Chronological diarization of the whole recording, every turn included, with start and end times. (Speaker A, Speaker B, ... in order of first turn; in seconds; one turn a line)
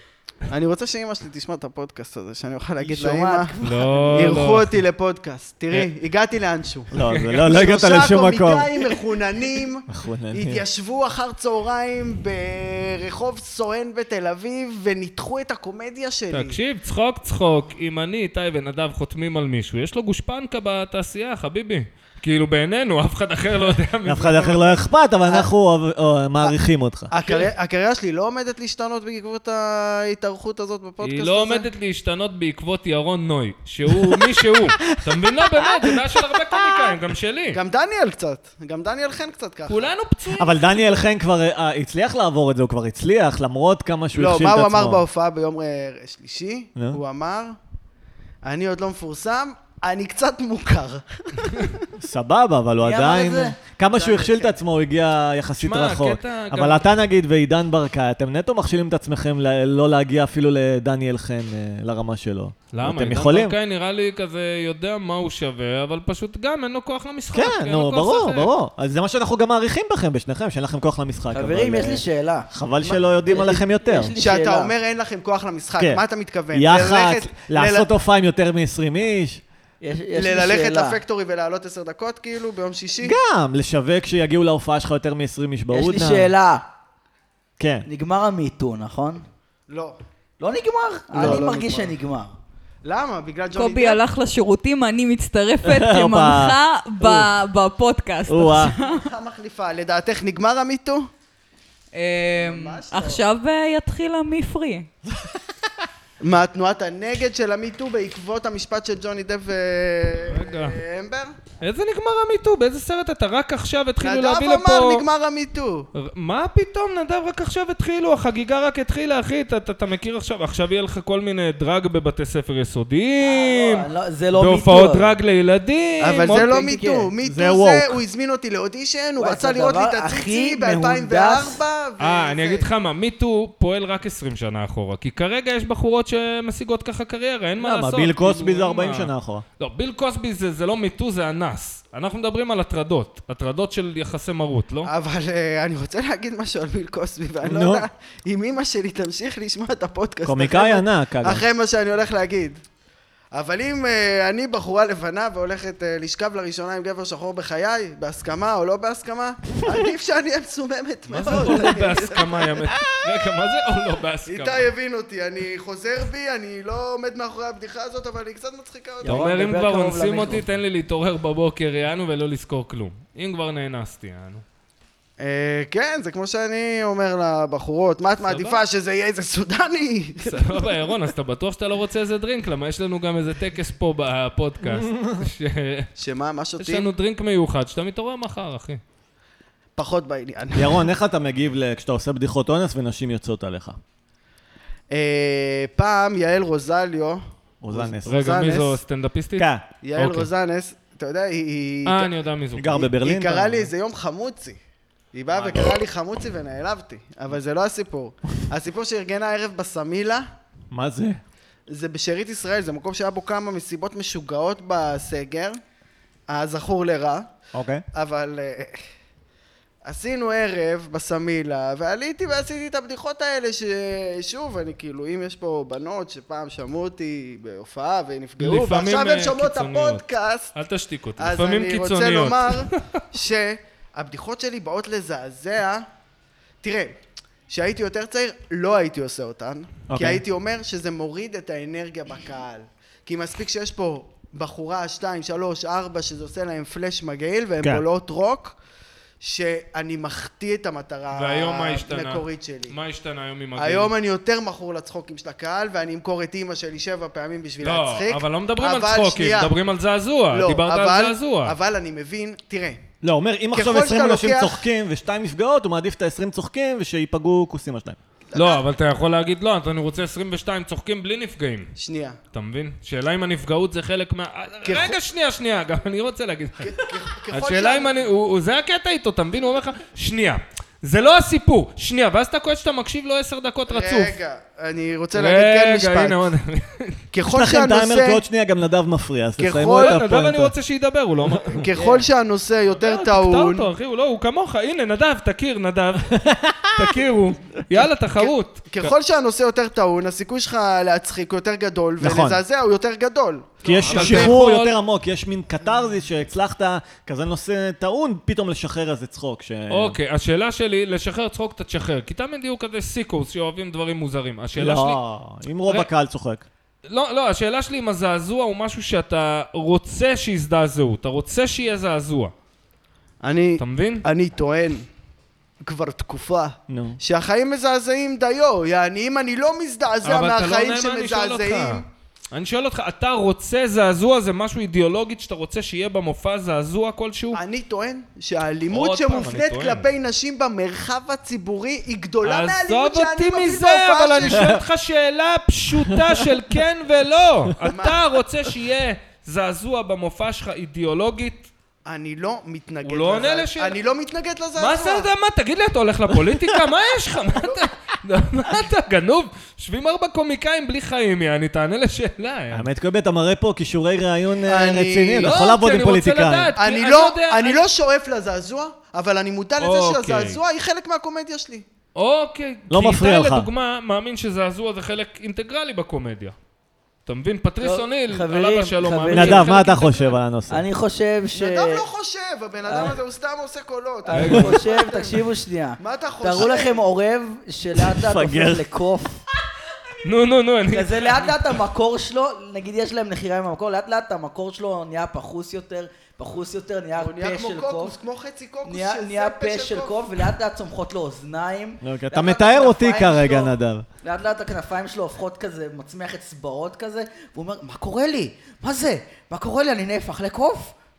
Speaker A: 0.5-3.5
Speaker B: 2.8-4.5
Speaker C: 3.6-4.8
Speaker A: 4.1-6.9
Speaker D: 6.9-8.7
Speaker C: 7.0-7.5
Speaker A: 7.5-16.6
Speaker D: 9.9-10.7
Speaker C: 16.3-24.8
Speaker D: 24.1-27.2
Speaker A: 27.1-31.7
Speaker C: 31.0-37.6
Speaker D: 35.1-35.4
Speaker D: 36.1-36.9
Speaker A: 37.5-39.9
Speaker C: 39.7-40.7
Speaker D: 40.4-45.0
Speaker A: 44.1-47.6
Speaker A: 48.4-51.9
Speaker D: 52.0-63.6
Speaker B: 52.8-53.6
Speaker A: 53.9-54.6
Speaker C: 55.6-56.9
Speaker C: 62.7-68.5
Speaker D: 67.3-74.1
Speaker B: 71.3-72.5
Speaker B: 73.2-74.7
Speaker A: 74.2-77.9
Speaker D: 75.8-79.4
Speaker B: 79.8-81.0
Speaker A: 80.2-83.2
Speaker D: 83.0-86.3
Speaker B: 85.7-86.6
Speaker D: 87.6-87.9
Speaker B: 87.9-89.2
Speaker A: 89.7-90.0
Speaker B: 90.4-92.3
Speaker A: 91.1-91.9
Speaker A: 92.8-94.0
Speaker E: 93.5-99.1
Speaker D: 95.6-97.3
Speaker D: 98.3-98.8
Speaker A: 98.7-101.1
Speaker E: 101.9-104.9
Speaker A: 102.3-103.2
Speaker A: 106.2-111.3
Speaker C: 110.3-110.8
Speaker C: 111.6-115.0
Speaker A: 114.0-115.9
Speaker C: 116.0-126.6
Speaker B: 123.2-125.1
Speaker A: 126.0-132.7
Speaker B: 126.3-127.1
Speaker D: 127.2-128.0
Speaker B: 129.2-131.6
Speaker C: 132.0-144.9
Speaker D: 137.6-139.4
Speaker A: 144.8-152.6
Speaker D: 147.4-147.9
Speaker D: 150.2-151.4
Speaker A: 153.3-162.5
Speaker C: 161.1-164.7
Speaker A: 164.3-169.2
Speaker B: 169.0-170.4
Speaker C: 169.1-174.4
Speaker A: 175.2-180.7
Speaker C: 178.2-178.6
Speaker C: 180.2-185.9
Speaker D: 184.7-185.3
Speaker A: 186.0-186.9
Speaker C: 186.6-188.8
Speaker A: 189.8-190.9
Speaker D: 190.6-193.8
Speaker A: 194.9-198.8
Speaker D: 197.6-198.2
Speaker C: 198.1-200.3
Speaker D: 199.4-199.7
Speaker A: 199.8-202.1
Speaker C: 201.8-202.8
Speaker D: 202.6-203.7
Speaker A: 202.7-204.6
Speaker A: 205.1-210.3
Speaker C: 205.3-205.7
Speaker D: 210.7-211.2
Speaker A: 211.7-215.6
Speaker A: 216.3-217.3
Speaker D: 217.5-217.8
Speaker A: 217.9-218.8
Speaker A: 219.8-230.5
Speaker C: 228.4-232.8
Speaker A: 231.2-235.9
Speaker A: 236.6-237.0
Speaker A: 237.5-248.6
Speaker D: 239.9-240.2
Speaker D: 247.6-247.8
Speaker A: 249.2-252.8
Speaker C: 251.1-253.9
Speaker A: 253.6-259.5
Speaker C: 257.6-261.6
Speaker A: 260.3-262.8
Speaker D: 263.0-268.0
Speaker A: 263.5-264.6
Speaker A: 268.3-268.6
Speaker C: 268.3-271.7
Speaker A: 271.8-272.2
Speaker C: 272.3-284.2
Speaker A: 274.6-275.0
Speaker A: 276.6-277.9
Speaker A: 283.7-286.2
Speaker C: 285.1-287.0
Speaker A: 287.1-288.2
Speaker D: 287.3-290.5
Speaker A: 289.4-290.0
Speaker C: 289.8-291.7
Speaker A: 291.5-293.7
Speaker B: 291.8-292.1
Speaker C: 292.8-298.9
Speaker D: 296.2-296.8
Speaker A: 298.2-304.4
Speaker D: 302.0-302.4
Speaker C: 303.6-304.8
Speaker D: 303.6-310.0
Speaker C: 309.7-315.0
Speaker D: 314.6-316.4
Speaker C: 316.9-322.3
Speaker A: 323.2-324.9
Speaker C: 323.6-324.1
Speaker A: 325.6-331.9
Speaker D: 326.7-327.0
Speaker C: 330.0-337.4
Speaker A: 337.3-344.6
Speaker C: 338.7-339.9
Speaker C: 342.2-351.5
Speaker A: 347.6-348.0
Speaker A: 351.9-355.1
Speaker C: 352.8-353.8
Speaker C: 354.6-362.7
Speaker A: 357.2-357.6
Speaker D: 362.5-366.5
Speaker A: 364.5-365.3
Speaker C: 365.2-367.6
Speaker A: 366.6-371.6
Speaker C: 369.6-370.4
Speaker C: 372.0-376.4
Speaker D: 372.7-373.5
Speaker C: 377.1-380.2
Speaker B: 377.6-379.6
Speaker D: 379.1-380.6
Speaker B: 380.5-381.9
Speaker A: 381.3-385.3
Speaker B: 382.6-383.0
Speaker B: 384.1-389.2
Speaker C: 384.1-384.6
Speaker A: 385.8-386.8
Speaker D: 387.9-388.6
Speaker C: 390.0-391.5
Speaker B: 390.7-398.0
Speaker A: 397.0-400.0
Speaker B: 398.6-410.7
Speaker D: 401.8-403.9